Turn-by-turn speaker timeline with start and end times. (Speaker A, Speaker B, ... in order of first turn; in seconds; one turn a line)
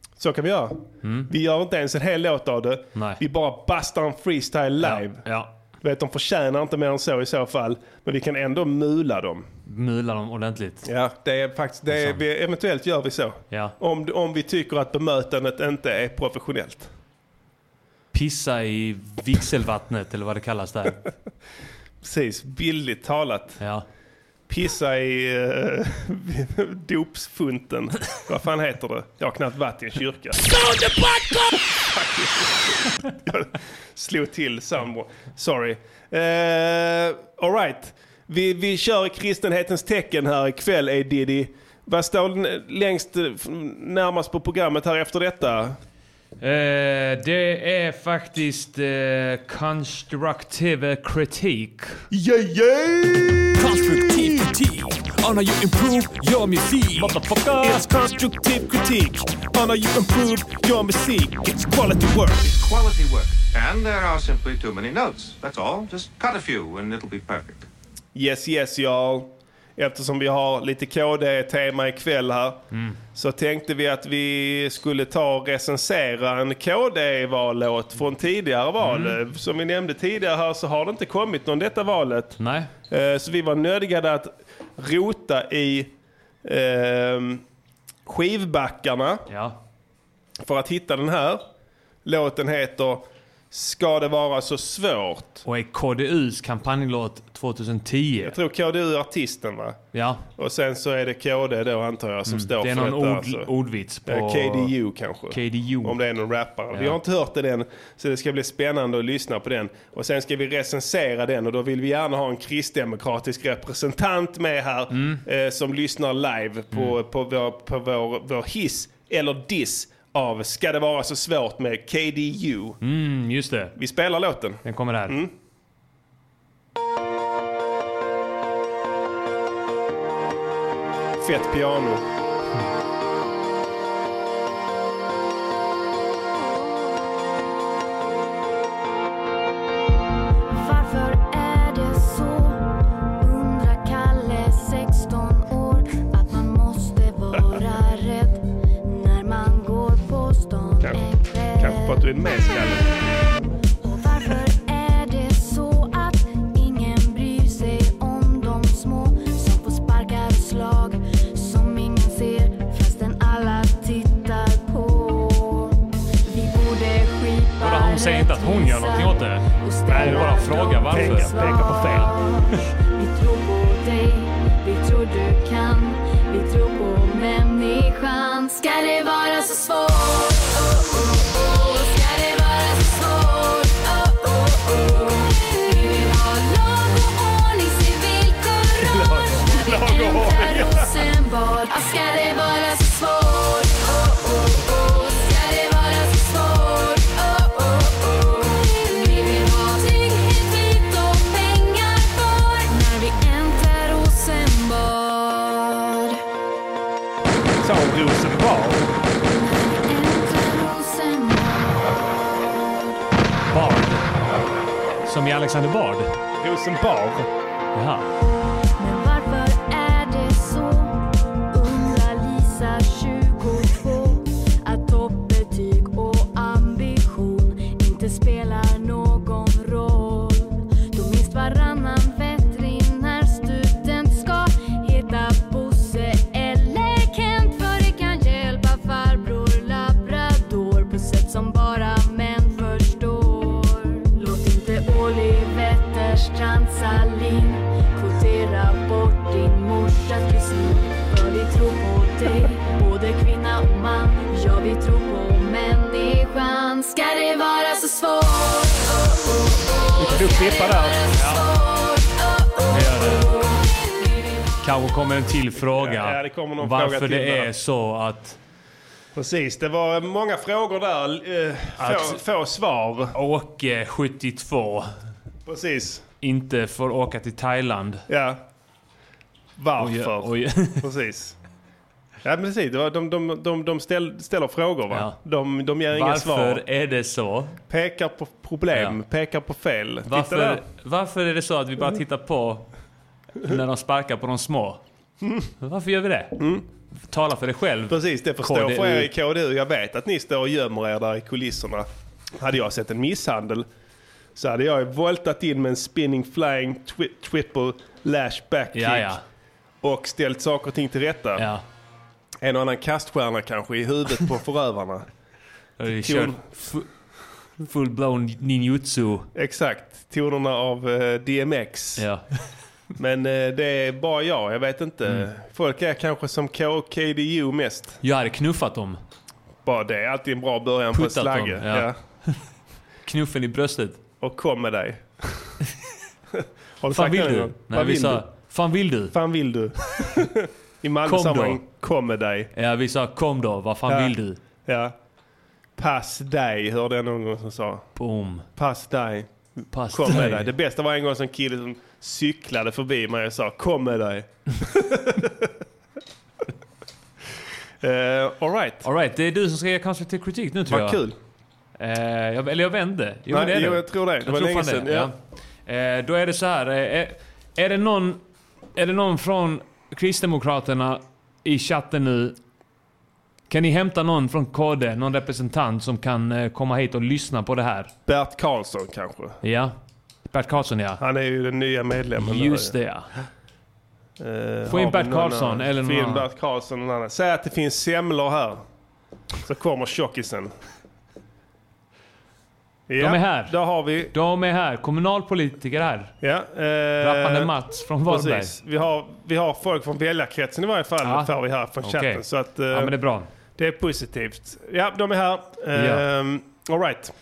Speaker A: 0.2-5.2
Speaker B: 1.0-1.3
Speaker B: 2.9-3.2
Speaker B: 4.8-5.5
Speaker A: 5.8-9.5
Speaker B: 9.7-10.9
Speaker A: 10.8-16.9
Speaker B: 11.9-12.2
Speaker B: 18.1-21.0
Speaker A: 22.0-23.6
Speaker B: 23.6-23.9
Speaker A: 24.5-45.8
Speaker B: 46.4-52.0
Speaker A: 52.1-53.6
Speaker C: 53.6-57.1
Speaker B: 57.0-57.8
Speaker A: 57.6-62.5
Speaker D: 62.4-67.7
Speaker A: 68.1-72.6
Speaker B: 72.7-73.0
Speaker A: 73.1-85.9
Speaker B: 78.8-79.2
Speaker B: 82.4-82.7
Speaker A: 86.4-87.4
Speaker A: 88.0-89.2
Speaker B: 89.3-89.6
Speaker A: 90.4-91.4
Speaker A: 92.0-95.4
Speaker B: 95.5-98.3
Speaker A: 98.2-99.8
Speaker B: 99.9-100.2
Speaker A: 100.4-103.5
Speaker B: 102.3-104.7
Speaker A: 104.1-122.8
Speaker B: 105.3-106.0
Speaker B: 106.7-107.0
Speaker B: 114.9-115.2
Speaker B: 122.8-123.7
Speaker A: 123.8-125.3
Speaker B: 124.6-125.2
Speaker A: 131.2-132.0
Speaker E: 140.5-142.7
Speaker E: 143.2-152.0
Speaker A: 151.6-153.0
Speaker E: 153.8-206.2
Speaker B: 167.6-172.1
Speaker A: 169.9-170.3
Speaker A: 170.9-172.1
Speaker A: 189.4-190.8
Speaker A: 207.6-208.9
Speaker E: 209.2-211.9
Speaker B: 213.5-214.1
Speaker B: 215.0-216.1
Speaker A: 216.4-217.3
Speaker B: 217.7-218.1
Speaker E: 218.8-221.0
Speaker E: 221.5-264.5
Speaker A: 260.0-261.0
Speaker B: 261.1-261.4
Speaker B: 262.7-263.3
Speaker B: 264.6-268.4
Speaker A: 265.6-267.5
Speaker A: 269.1-273.1
Speaker B: 271.8-272.2
Speaker B: 273.1-274.9
Speaker A: 275.4-276.0
Speaker B: 276.2-278.0
Speaker A: 278.1-278.4
Speaker A: 279.6-281.4
Speaker B: 279.8-280.9
Speaker A: 282.2-286.6
Speaker B: 284.9-285.2
Speaker B: 285.9-287.6
Speaker A: 287.7-290.6
Speaker B: 290.1-292.7
Speaker B: 293.4-294.8
Speaker A: 295.2-295.5
Speaker B: 295.6-296.4
Speaker A: 296.4-296.6
Speaker B: 297.0-299.1
Speaker A: 297.9-301.9
Speaker A: 302.4-303.7
Speaker A: 304.4-309.1
Speaker B: 308.7-309.2
Speaker A: 309.8-311.4
Speaker B: 311.4-311.6
Speaker A: 312.4-315.1
Speaker B: 315.8-316.9
Speaker A: 316.0-316.6
Speaker B: 317.6-319.3
Speaker A: 319.3-322.0
Speaker B: 322.0-322.2
Speaker A: 323.0-328.0
Speaker B: 328.0-329.0
Speaker A: 329.6-331.9
Speaker B: 330.9-332.4
Speaker B: 333.0-334.0
Speaker A: 334.2-335.5
Speaker A: 336.4-338.2
Speaker B: 336.9-339.1
Speaker A: 339.1-342.5
Speaker B: 341.1-341.6
Speaker B: 342.5-344.4
Speaker A: 343.9-344.1
Speaker A: 344.6-344.9
Speaker A: 345.8-347.9
Speaker B: 347.9-348.4
Speaker A: 348.6-355.5
Speaker B: 349.7-350.5
Speaker A: 357.8-358.8
Speaker B: 358.8-361.0
Speaker A: 360.7-361.1
Speaker B: 361.8-365.1
Speaker A: 363.3-365.1
Speaker B: 365.6-368.2
Speaker B: 368.7-372.4
Speaker B: 373.5-377.9
Speaker A: 378.1-379.4
Speaker B: 379.4-379.7
Speaker B: 380.3-381.0
Speaker A: 381.0-382.7
Speaker B: 382.2-383.1
Speaker A: 384.2-388.6
Speaker B: 384.7-386.2
Speaker A: 389.4-390.5
Speaker A: 392.9-394.1
Speaker B: 393.0-393.5
Speaker B: 394.1-396.1
Speaker A: 396.2-397.5
Speaker B: 397.0-398.5
Speaker A: 398.1-402.9
Speaker B: 401.0-401.3
Speaker B: 401.8-403.3
Speaker A: 403.6-407.1
Speaker B: 405.7-406.0